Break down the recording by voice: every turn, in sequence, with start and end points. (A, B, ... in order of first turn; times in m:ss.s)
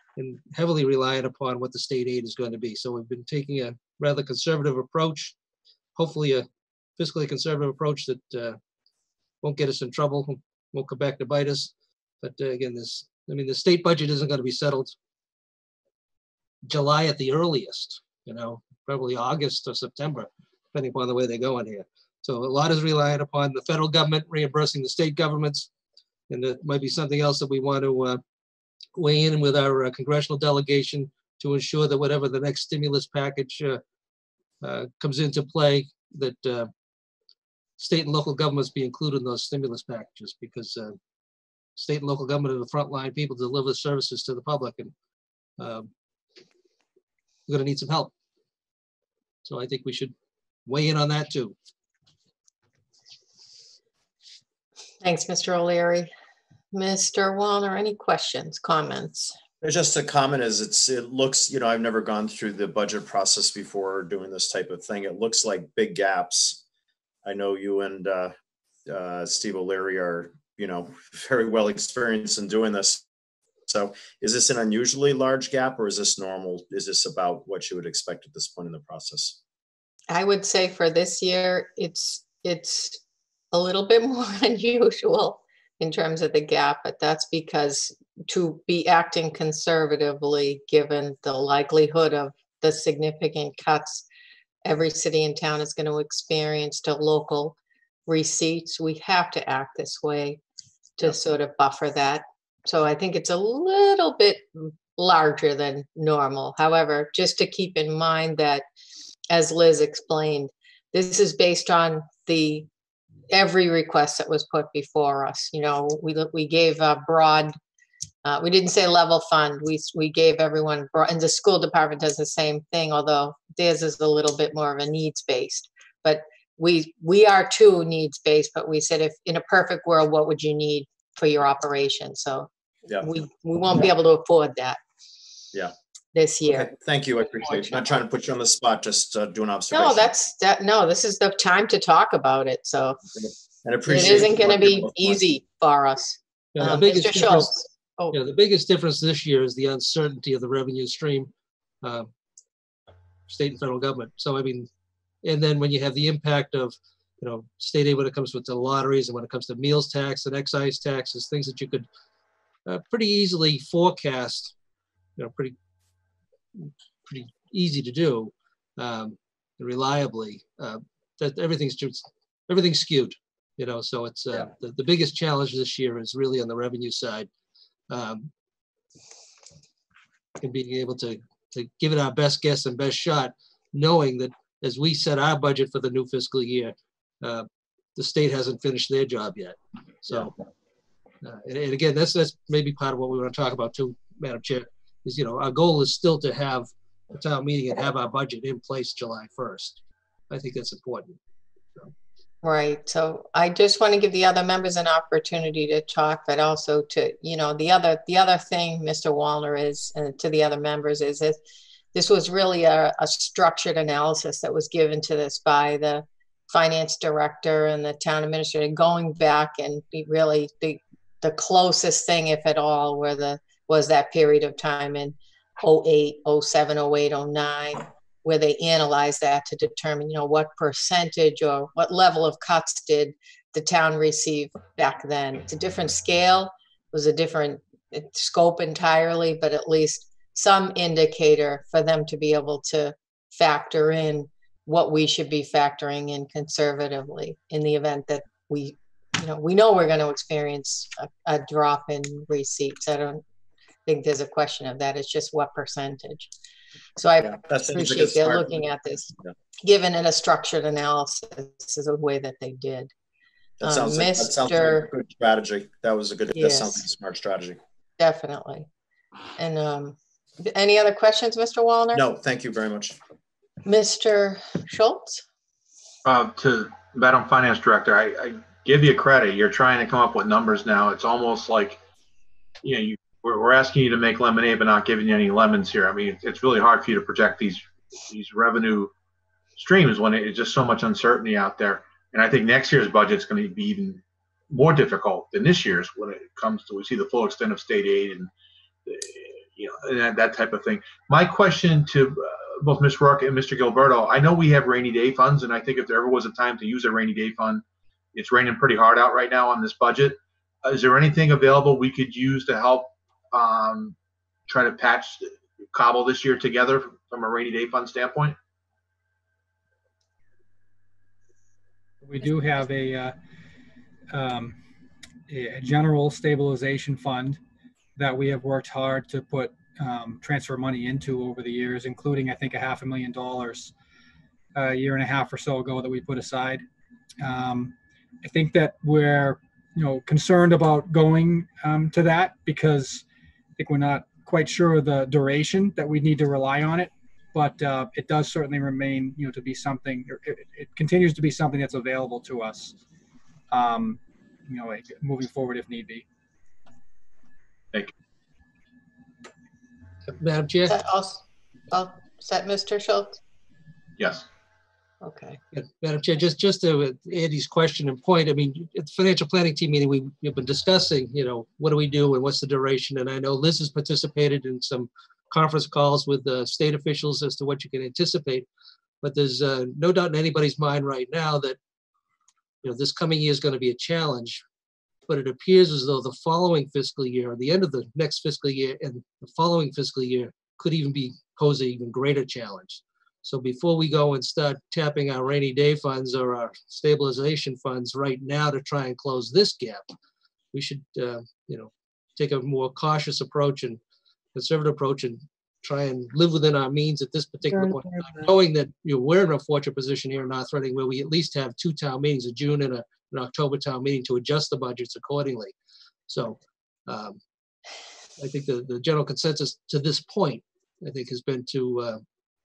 0:00.2-0:05.4 A
0:06.0-0:06.5 A
0:07.0-0:08.6 A
0:09.4-0:15.0 A
0:16.7-0:25.7 A
0:26.3-0:28.2 A
0:29.0-0:33.8 A
0:34.6-0:36.7 A
0:37.8-0:41.0 A
0:41.8-0:44.9 A
0:45.6-0:45.9 A
0:47.5-0:48.1 A
0:49.4-0:50.1 A
0:50.7-0:51.6 A
0:55.0-0:56.1 B
0:56.7-0:59.4 B
0:59.6-1:06.6 C
1:07.2-1:08.3 C
1:08.9-1:13.0 C
1:13.7-1:19.4 C
1:20.1-1:34.1 B
1:34.6-1:40.4 B
1:41.0-1:48.6 B
1:49.3-1:52.7 B
1:53.3-1:57.6 B
1:58.2-2:12.5 B
2:13.0-2:14.8 B
2:16.1-2:16.7 B
2:16.5-2:20.1 C
2:17.4-2:17.9 B
2:19.7-2:23.0 B
2:23.2-2:25.2 C
2:23.8-2:28.2 B
2:26.6-2:27.6 A
2:28.1-2:31.3 A
2:31.8-2:32.1 A
2:33.3-2:34.7 A
2:35.2-2:41.9 A
2:42.7-2:44.5 A
2:45.2-2:45.6 A
2:46.6-2:57.3 A
2:57.9-2:58.3 A
3:00.4-3:10.3 A
3:11.2-3:19.8 A
3:20.3-3:21.2 A
3:22.4-3:31.4 B
3:31.9-4:13.2 B
4:13.9-4:16.3 B
4:17.0-4:22.9 B
4:17.2-4:18.7 C
4:23.6-4:27.6 C
4:23.6-4:24.9 B
4:26.3-4:26.8 B
4:28.0-4:28.7 B
4:29.4-4:32.0 B
4:31.9-4:33.0 C
4:33.6-4:35.2 B
4:36.0-4:41.8 D
4:42.6-4:48.9 D
4:49.6-4:58.3 D
4:58.9-5:14.0 D
5:14.5-5:18.4 D
5:22.0-5:23.1 E
5:24.1-5:24.6 E
5:25.3-5:27.4 E
5:28.0-5:33.7 E
5:34.6-5:36.6 E
5:37.2-5:43.0 E
5:43.6-5:52.8 E
5:53.5-5:56.0 E
6:00.1-6:00.8 A
6:00.7-6:03.2 B
6:04.0-6:04.3 D
6:05.0-6:05.4 B
6:05.5-6:18.5 A
6:19.0-6:21.6 A
6:22.6-6:24.4 A
6:25.1-6:39.8 A
6:40.5-6:43.8 A
6:44.4-6:55.5 A
6:56.1-6:57.2 A
6:58.2-7:02.0 A